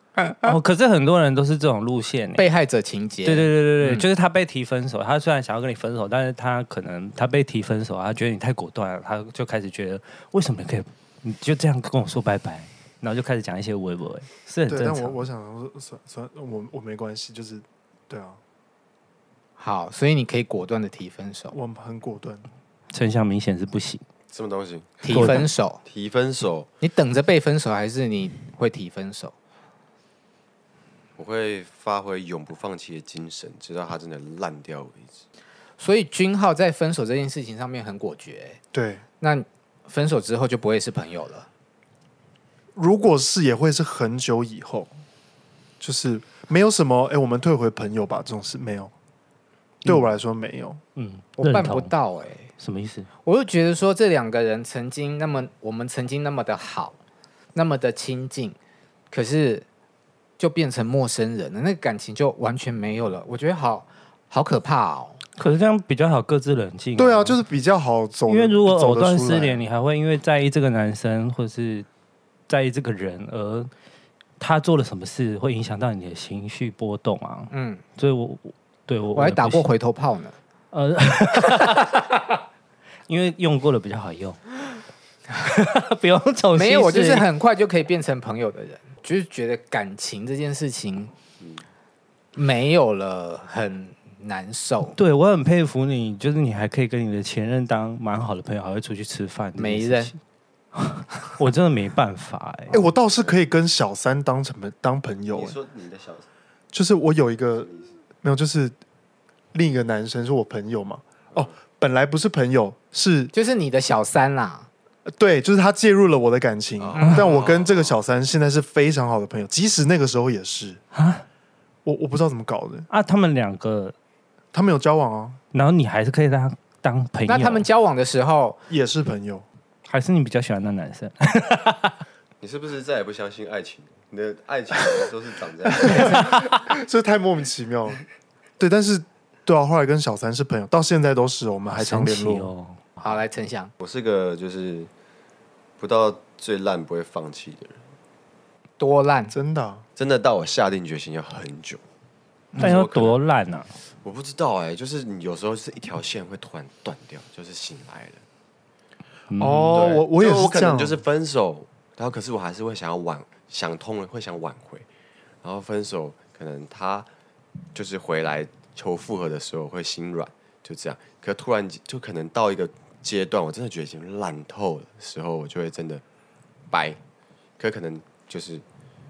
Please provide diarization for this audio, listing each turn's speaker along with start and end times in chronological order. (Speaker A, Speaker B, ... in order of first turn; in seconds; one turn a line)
Speaker A: 0.2-0.5
Speaker B: 0.4-2.5
Speaker A: 2.4-4.0
Speaker B: 3.2-15.2
Speaker C: 14.7-18.4
Speaker A: 19.6-21.6
Speaker C: 21.5-22.5
Speaker B: 22.9-24.0
Speaker D: 24.3-26.7
Speaker A: 25.0-25.8
Speaker B: 25.1-25.5
Speaker A: 26.8-29.3
Speaker D: 31.2-35.2
Speaker A: 35.8-38.6
Speaker C: 38.7-39.0
Speaker A: 39.2-41.5
Speaker C: 42.8-44.9
Speaker C: 45.8-48.9
Speaker C: 49.9-50.8
Speaker B: 51.0-51.9
Speaker A: 51.4-52.5
Speaker B: 52.6-53.1
Speaker A: 53.2-57.0
Speaker A: 57.5-58.6
Speaker A: 59.1-59.6
Speaker A: 60.4-65.2
Speaker B: 65.4-67.4
Speaker C: 67.0-69.6
Speaker B: 68.3-71.9
Speaker B: 72.5-73.7
Speaker B: 74.4-79.7
Speaker A: 77.5-77.8
Speaker A: 79.2-80.4
Speaker B: 80.7-82.0
Speaker B: 83.1-84.4
Speaker B: 85.3-87.3
Speaker A: 86.5-91.1
Speaker A: 92.3-95.0
Speaker B: 95.0-100.2
Speaker A: 99.6-100.1
Speaker B: 100.8-102.8
Speaker C: 102.7-105.6
Speaker D: 105.3-106.3
Speaker C: 106.7-108.8
Speaker C: 109.5-113.3
Speaker A: 113.3-114.7
Speaker C: 115.1-120.8
Speaker D: 116.8-118.0
Speaker B: 120.9-121.2
Speaker C: 121.8-122.9
Speaker B: 122.9-124.0
Speaker C: 124.5-125.4
Speaker B: 125.5-127.7
Speaker A: 127.3-128.6
Speaker C: 128.7-129.4
Speaker B: 129.9-132.0
Speaker D: 132.4-136.1
Speaker C: 135.8-138.0
Speaker A: 135.8-136.4
Speaker C: 138.6-142.5
Speaker B: 141.7-142.8
Speaker A: 143.0-143.7
Speaker D: 143.8-144.9
Speaker D: 145.8-147.8
Speaker A: 148.8-149.3
Speaker C: 149.3-149.8
Speaker D: 150.0-151.8
Speaker A: 152.5-152.8
Speaker B: 152.6-153.7
Speaker D: 152.6-153.2
Speaker D: 154.0-158.2
Speaker B: 159.3-159.9
Speaker C: 159.4-161.0
Speaker D: 159.7-164.9
Speaker D: 165.4-167.1
Speaker D: 167.7-176.0
Speaker D: 176.7-177.0
Speaker D: 177.6-178.6